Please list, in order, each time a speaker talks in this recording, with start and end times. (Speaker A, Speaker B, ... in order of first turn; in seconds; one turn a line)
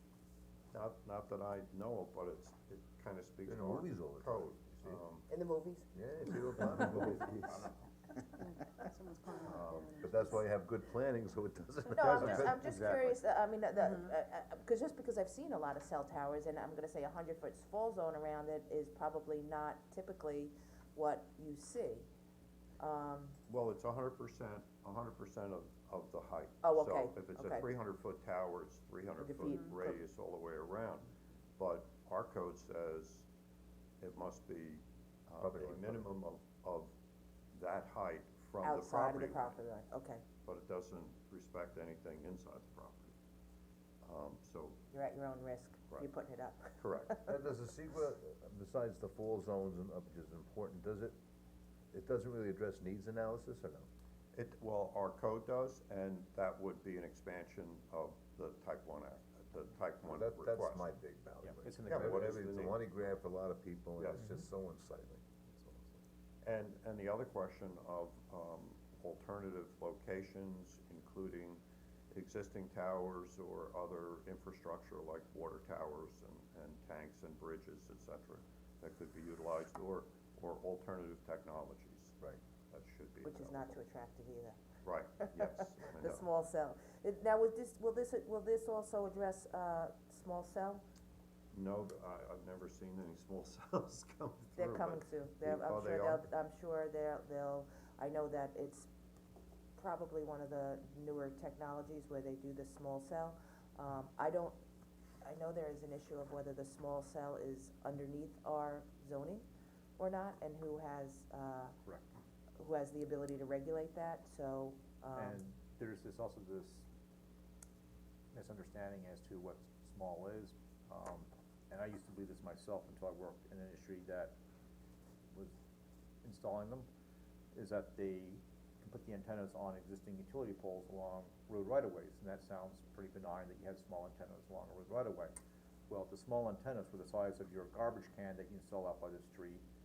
Speaker A: 0.7-5.3
Speaker B: 3.5-5.0
Speaker C: 5.3-5.9
Speaker B: 5.9-7.7
Speaker D: 8.4-10.3
Speaker B: 9.5-12.7
Speaker C: 11.9-22.1
Speaker E: 12.0-13.1
Speaker C: 22.8-23.4
Speaker A: 23.5-33.3
Speaker C: 26.6-27.7
Speaker C: 29.2-30.0
Speaker A: 34.0-36.9
Speaker B: 35.4-36.1
Speaker A: 37.5-39.6
Speaker C: 38.6-40.2
Speaker A: 40.4-43.1
Speaker A: 44.0-44.8
Speaker C: 44.9-47.2
Speaker A: 46.8-47.3
Speaker B: 47.2-51.1
Speaker B: 51.9-53.9
Speaker A: 54.3-60.9
Speaker B: 60.1-66.0
Speaker E: 61.4-62.1
Speaker A: 61.9-62.8
Speaker A: 64.0-64.4
Speaker A: 66.4-82.2
Speaker A: 82.7-83.8
Speaker C: 83.2-84.6
Speaker A: 84.8-86.3
Speaker C: 85.2-90.8
Speaker A: 91.5-96.3
Speaker C: 94.6-98.9
Speaker C: 99.8-104.6
Speaker C: 105.2-109.5
Speaker C: 110.0-111.7
Speaker C: 112.6-115.4
Speaker E: 115.2-116.9
Speaker E: 118.3-124.3
Speaker E: 126.2-126.9
Speaker E: 127.5-135.3
Speaker E: 135.9-139.6